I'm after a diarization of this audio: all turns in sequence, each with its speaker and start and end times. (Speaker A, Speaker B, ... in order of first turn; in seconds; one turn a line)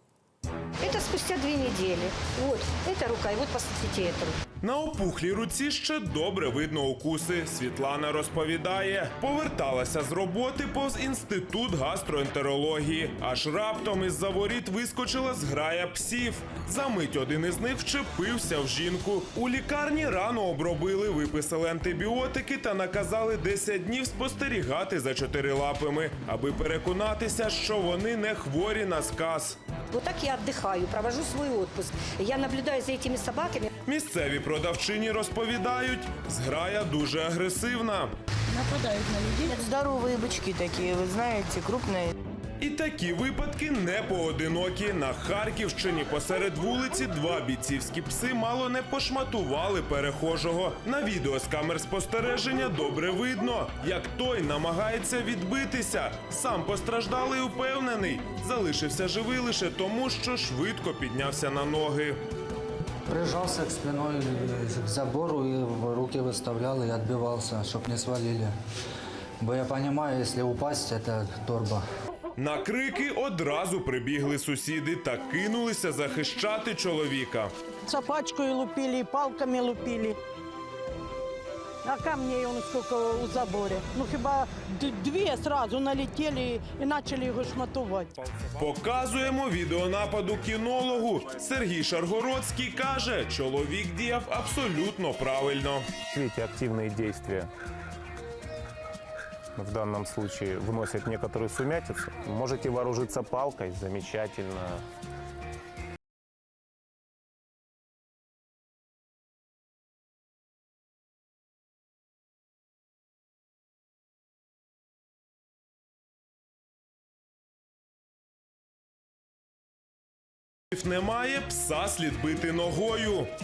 Speaker A: 0.8-4.4
Speaker B: 4.6-29.6
Speaker A: 29.9-33.7
Speaker B: 33.8-38.1
Speaker C: 39.4-42.1
Speaker B: 42.6-62.2
Speaker D: 63.1-68.5
Speaker D: 69.4-71.8
Speaker B: 72.4-77.5
Speaker E: 77.9-80.2
Speaker E: 81.8-88.1
Speaker B: 88.5-95.9
Speaker F: 96.1-97.5
Speaker F: 99.5-104.8
Speaker B: 120.7-123.3